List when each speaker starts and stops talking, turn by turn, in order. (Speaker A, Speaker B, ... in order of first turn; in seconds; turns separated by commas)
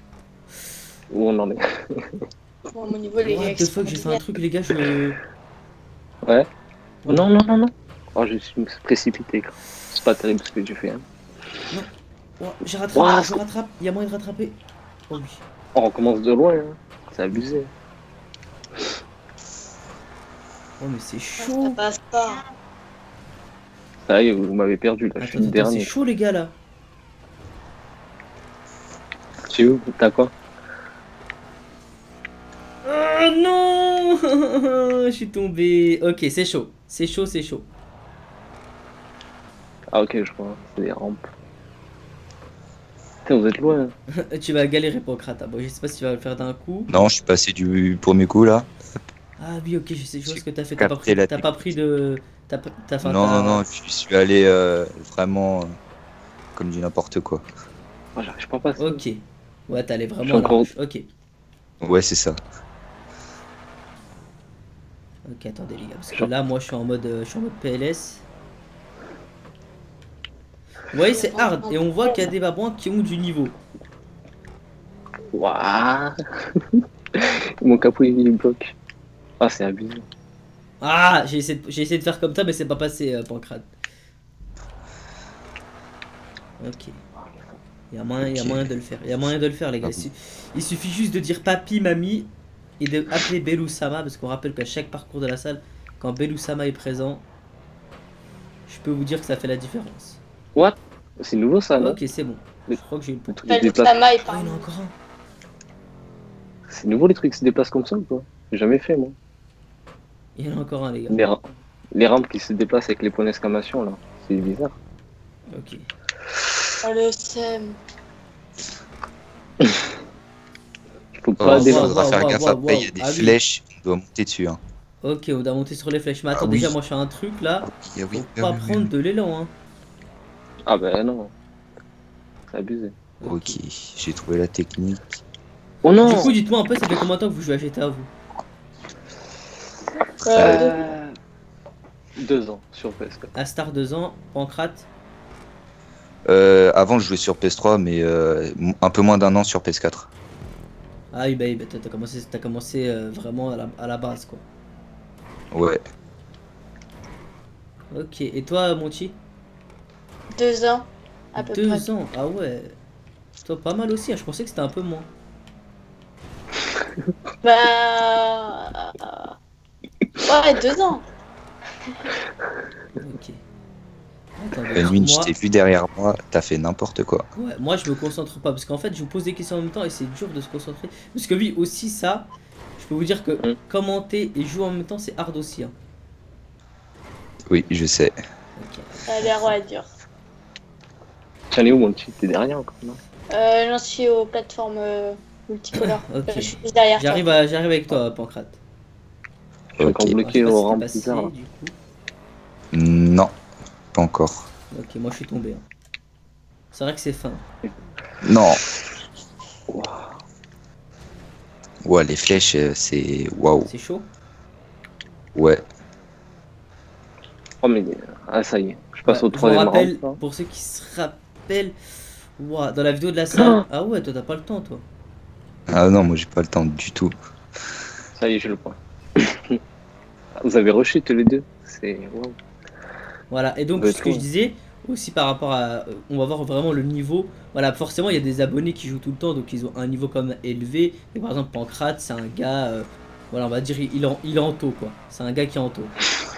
Speaker A: 1.1-2.2, Speaker B: 2.7-4.2, Speaker C: 3.2-5.2, Speaker A: 7.1-11.1, Speaker C: 11.7-14.6, Speaker A: 12.9-13.4, Speaker C: 15.1-15.4, Speaker A: 15.8-17.7, Speaker C: 20.8-21.8, Speaker B: 21.4-22.4, Speaker A: 24.1-25.9, Speaker C: 25.2-26.6, Speaker A: 29.5-30.3, Speaker C: 32.8-37.7, Speaker A: 39.9-41.3, Speaker A: 43.3-43.9, Speaker C: 44.2-46.9, Speaker D: 46.9-48.7, Speaker C: 49.4-53.6, Speaker D: 50.3-51.7, Speaker D: 53.0-55.7, Speaker D: 56.5-57.5, Speaker A: 58.2-59.0, Speaker C: 58.8-61.1, Speaker A: 60.2-60.7, Speaker D: 61.8-62.4, Speaker C: 65.2-68.2, Speaker C: 70.9-73.6, Speaker B: 71.1-72.3, Speaker A: 75.3-76.2, Speaker A: 76.7-78.7, Speaker A: 79.4-80.1, Speaker C: 80.8-83.7, Speaker C: 86.6-87.0, Speaker C: 87.9-97.2, Speaker D: 88.2-88.7, Speaker D: 89.8-90.1, Speaker C: 98.7-100.2, Speaker A: 100.5-102.0, Speaker C: 101.8-103.5, Speaker A: 103.3-104.0, Speaker B: 103.5-104.7, Speaker C: 104.2-104.9, Speaker A: 106.7-109.2, Speaker C: 110.4-111.3, Speaker A: 111.1-111.4, Speaker A: 111.9-114.7, Speaker C: 115.5-115.8, Speaker B: 116.8-117.8, Speaker A: 121.2-122.0, Speaker D: 121.4-124.6, Speaker C: 121.5-123.4, Speaker C: 125.0-129.5, Speaker D: 126.3-126.8, Speaker D: 127.7-128.9, Speaker A: 130.7-131.3, Speaker A: 132.5-133.0, Speaker C: 133.2-133.6, Speaker D: 133.2-135.2, Speaker A: 135.8-136.3, Speaker C: 136.0-138.1, Speaker B: 140.2-140.9, Speaker A: 140.3-141.2, Speaker D: 140.4-140.7, Speaker A: 142.2-143.3, Speaker C: 143.3-144.9, Speaker D: 146.3-150.1, Speaker C: 151.1-154.4, Speaker D: 155.5-155.8, Speaker C: 157.9-159.2, Speaker B: 160.3-161.8, Speaker C: 161.4-162.8, Speaker C: 163.4-165.1, Speaker B: 167.4-169.3, Speaker B: 170.2-171.1, Speaker C: 173.0-173.4, Speaker C: 174.4-175.3, Speaker D: 174.8-177.3, Speaker C: 177.3-185.8, Speaker D: 187.5-188.2, Speaker C: 188.6-189.6, Speaker B: 189.1-189.9, Speaker A: 191.5-193.0, Speaker B: 193.3-197.3, Speaker C: 195.8-198.6, Speaker D: 199.8-200.2, Speaker A: 199.8-201.3, Speaker C: 200.2-201.8, Speaker D: 202.7-203.3, Speaker D: 203.9-204.5, Speaker C: 204.7-205.7, Speaker C: 206.7-207.4, Speaker D: 208.2-208.6, Speaker A: 209.7-210.1, Speaker D: 211.8-213.7, Speaker C: 213.7-214.1, Speaker D: 215.3-215.7, Speaker A: 217.6-220.2, Speaker C: 219.1-221.8, Speaker C: 222.4-224.8, Speaker A: 223.3-223.6, Speaker D: 225.7-227.1, Speaker A: 228.2-229.6, Speaker A: 230.4-232.4, Speaker C: 233.3-245.9, Speaker A: 233.8-234.3